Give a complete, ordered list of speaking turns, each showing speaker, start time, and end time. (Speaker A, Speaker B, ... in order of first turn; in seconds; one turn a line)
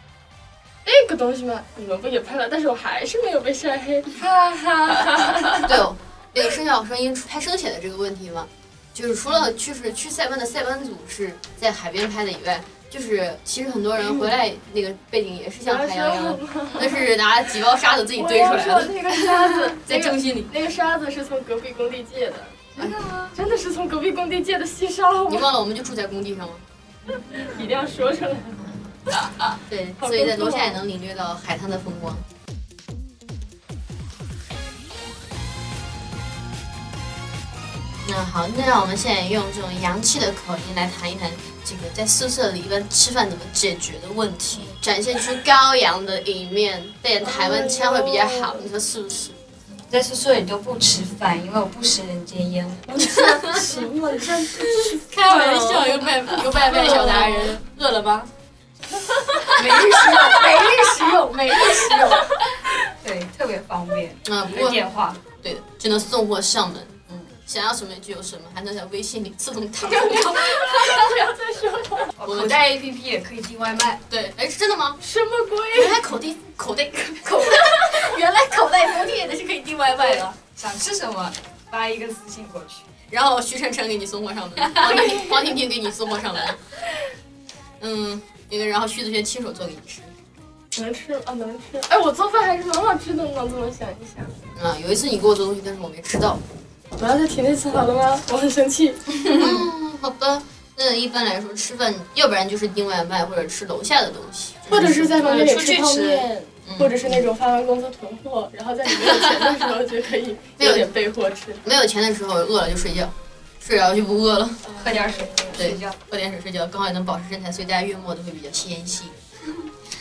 Speaker A: 0.8-5.7
Speaker B: 5.7-19.0
Speaker A: 14.0-14.3
Speaker A: 15.6-17.1
Speaker C: 16.7-17.0
Speaker A: 18.1-25.5
Speaker B: 19.7-20.5
Speaker C: 22.8-23.3
Speaker B: 25.3-26.6
Speaker A: 27.1-28.7
Speaker B: 29.7-32.2
Speaker A: 30.0-30.8
Speaker B: 38.0-49.4
Speaker C: 44.5-44.8
Speaker A: 47.2-48.7
Speaker C: 49.9-52.9
Speaker A: 52.9-57.6
Speaker B: 54.6-58.3
Speaker C: 56.8-57.3
Speaker B: 59.6-62.3
Speaker C: 59.6-60.5
Speaker A: 59.6-62.3
Speaker C: 63.0-65.2
Speaker B: 64.2-64.8
Speaker B: 65.4-70.4
Speaker A: 69.8-72.1
Speaker C: 70.0-71.1
Speaker C: 72.2-74.0
Speaker B: 72.3-72.6
Speaker B: 74.1-75.0
Speaker A: 75.0-76.0
Speaker B: 75.7-80.3
Speaker C: 77.4-78.2
Speaker C: 80.1-82.8
Speaker B: 83.1-86.6
Speaker B: 87.8-90.1
Speaker A: 90.7-94.3
Speaker B: 94.5-96.4
Speaker A: 97.0-99.2
Speaker B: 99.3-105.2
Speaker A: 104.7-111.6
Speaker C: 105.2-106.3
Speaker B: 106.7-107.2
Speaker B: 110.6-110.9
Speaker B: 111.6-114.7
Speaker A: 114.6-115.3
Speaker C: 114.8-116.0
Speaker B: 115.6-119.1